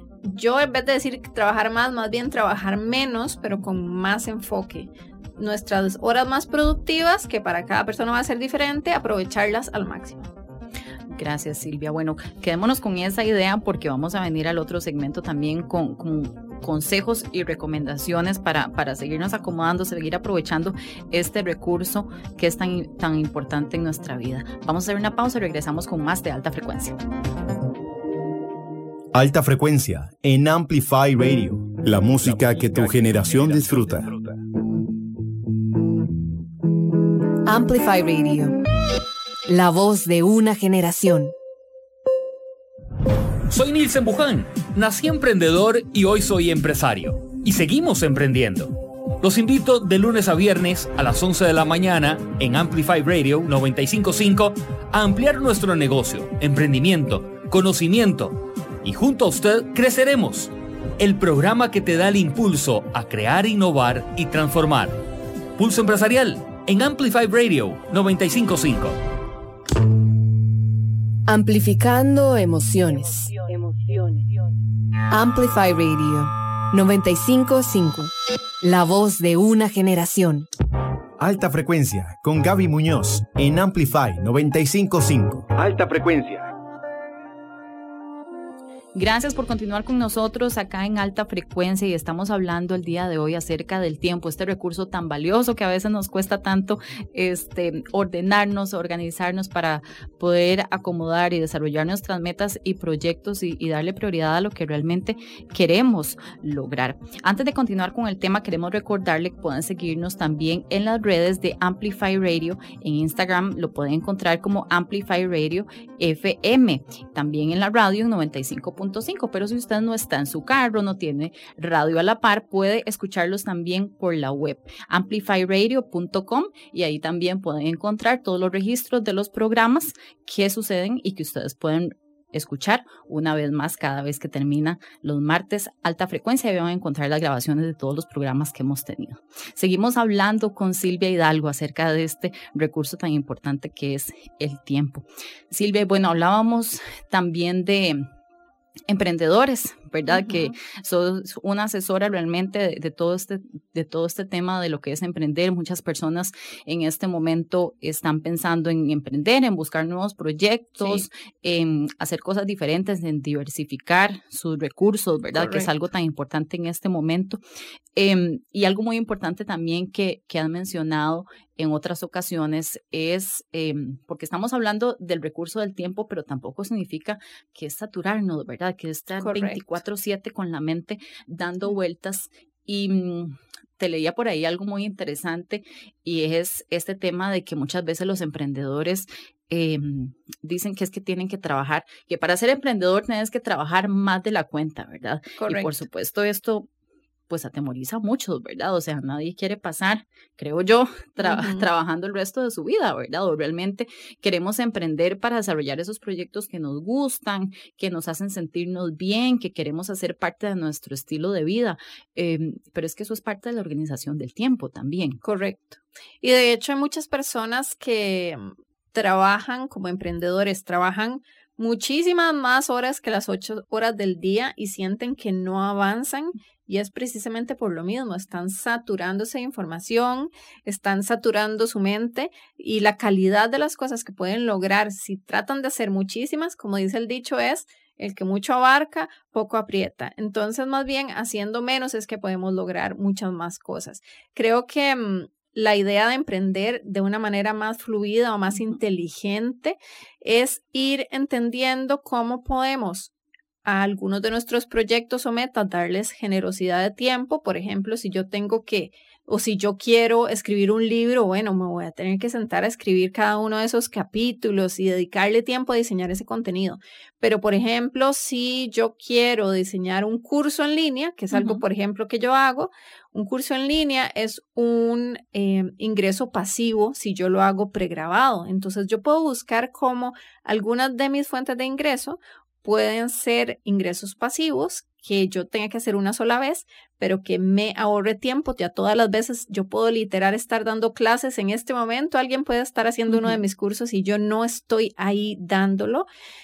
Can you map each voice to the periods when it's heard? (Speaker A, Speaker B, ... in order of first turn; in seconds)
Speaker A: 0.2-10.3, 150.1-150.5, 165.3-165.7, 179.2-179.6, 195.4-195.7, 201.2-201.7, 215.2-253.1, 253.7-296.1
Speaker B: 11.1-27.0, 88.9-148.1, 148.9-167.4, 168.0-196.7, 197.3-215.2, 271.3-271.6, 293.1-293.4
Speaker C: 29.1-34.2, 81.2-86.5
Speaker D: 37.5-38.6, 39.5-41.3, 71.3-74.2, 75.1-80.5
Speaker E: 43.5-65.0, 65.6-69.0